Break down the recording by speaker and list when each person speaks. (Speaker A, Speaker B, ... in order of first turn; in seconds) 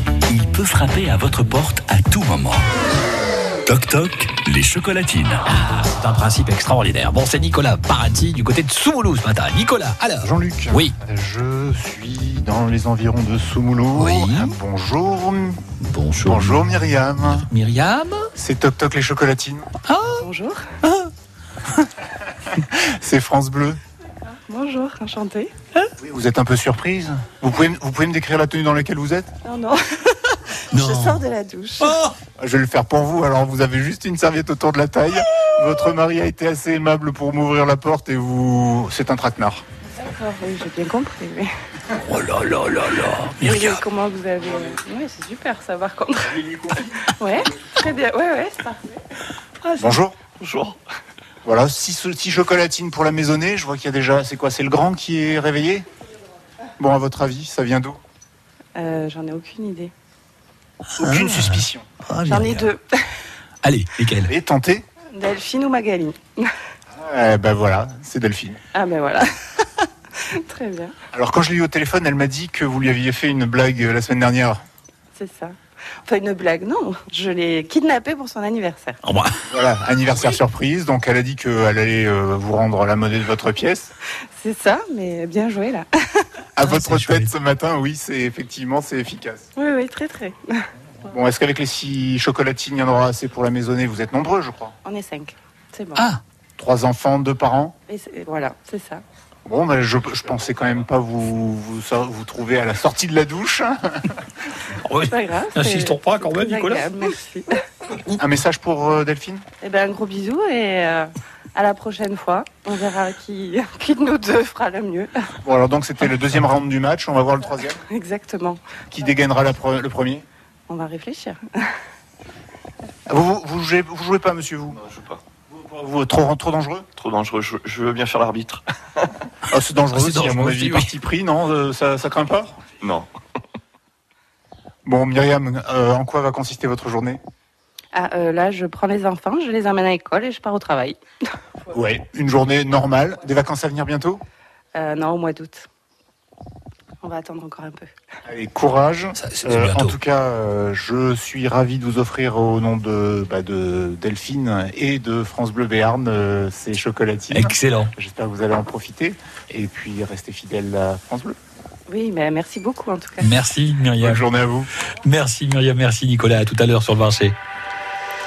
Speaker A: 0.3-2.6, 3.6-5.4
Speaker B: 5.4-10.9, 13.9-14.5, 15.8-18.3, 19.9-20.2, 30.7-31.2, 31.8-32.1, 42.0-43.8, 61.0-62.7, 63.6-64.3, 79.0-79.4, 86.6-87.3, 104.8-106.9, 129.9-130.9, 149.2-149.9, 157.3-157.9, 163.2-164.2, 165.0-167.3
Speaker C: 10.2-15.6, 16.2-17.5, 18.4-19.7, 22.5-23.8, 26.0-29.3, 32.4-39.6, 49.8-50.2, 51.4-55.9, 56.8-58.0, 61.0-61.9, 64.2-64.9, 66.9-68.6, 71.1-74.6, 79.5-83.9, 86.5-89.5, 91.0-94.7, 96.6-97.8, 99.5-104.2, 108.1-109.4, 115.4-117.8, 118.9-120.2, 123.1-124.8, 125.5-126.9, 129.5-132.6, 134.8-137.2, 141.7-144.2, 148.2-161.4, 164.0-164.7
Speaker D: 20.2-20.7, 24.3-25.5, 29.4-32.0, 39.9-41.5, 43.4-48.9, 58.7-59.9, 62.2-63.0, 65.1-66.5, 68.7-70.9, 75.1-79.0, 84.3-86.3, 89.5-90.7, 94.8-96.1, 97.9-99.0, 104.9-107.6, 109.6-115.3, 117.8-118.6, 120.7-121.7, 137.9-141.0, 144.7-145.7, 147.0-147.9, 161.9-163.3
Speaker E: 50.4-50.8, 124.8-125.2, 127.0-129.1, 132.8-133.1